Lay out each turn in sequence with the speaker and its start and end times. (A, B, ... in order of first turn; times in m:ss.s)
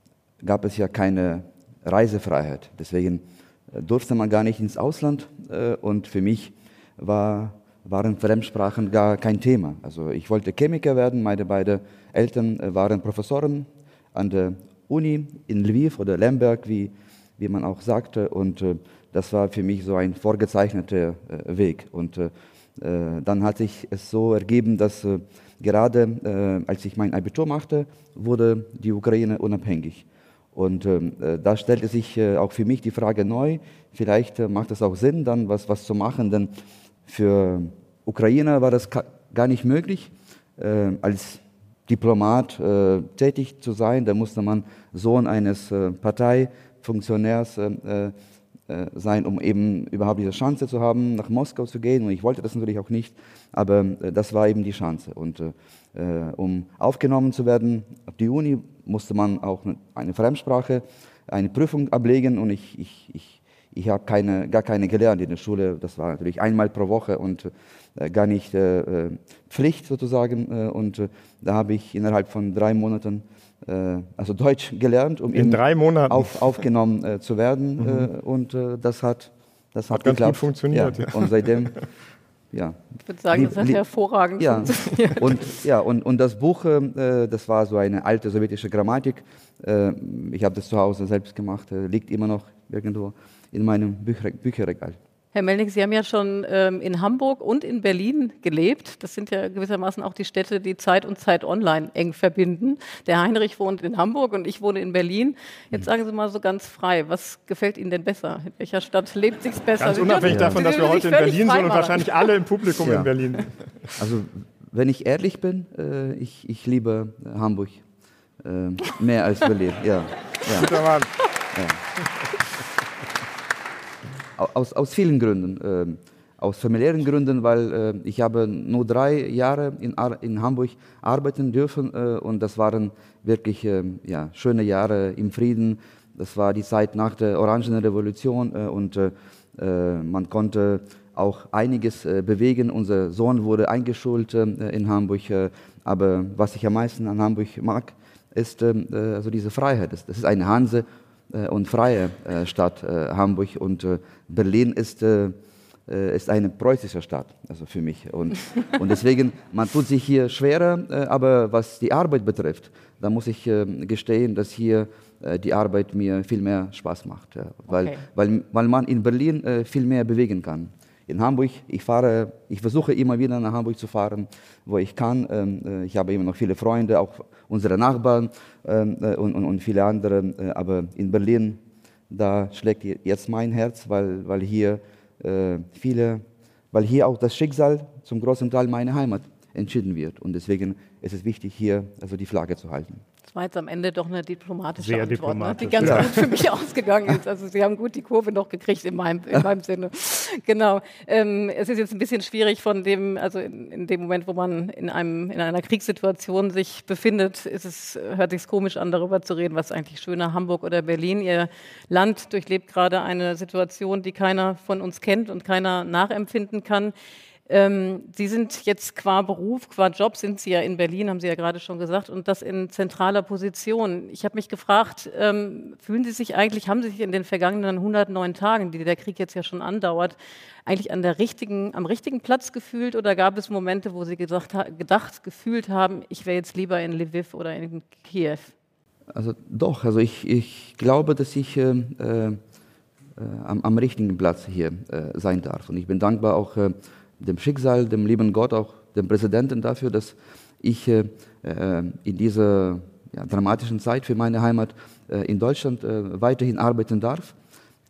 0:00.4-0:36.5 A
0:37.1-0:48.1 A
0:48.7-1:21.8 A
1:15.3-1:16.6 B
1:17.8-1:18.1 B
1:19.9-1:21.7 B
1:22.5-1:22.8 A
1:23.1-1:25.2 C
1:23.3-1:23.8 A
1:24.4-1:35.0 A
1:35.3-1:52.1 C
1:49.8-1:53.5 B
1:50.3-1:50.6 A
1:52.8-1:53.1 A
1:54.0-1:57.8 A
1:58.4-2:00.8 A
2:00.5-2:01.1 B
2:01.5-2:01.8 A
2:04.4-2:35.4 A
2:35.9-3:13.0 A
2:47.7-2:48.0 C
3:13.3-3:36.9 C
3:14.8-3:16.4 B
3:15.8-3:16.1 A
3:37.5-3:50.2 C
3:50.7-3:58.5 C
3:59.1-4:02.4 A
4:03.2-4:17.4 A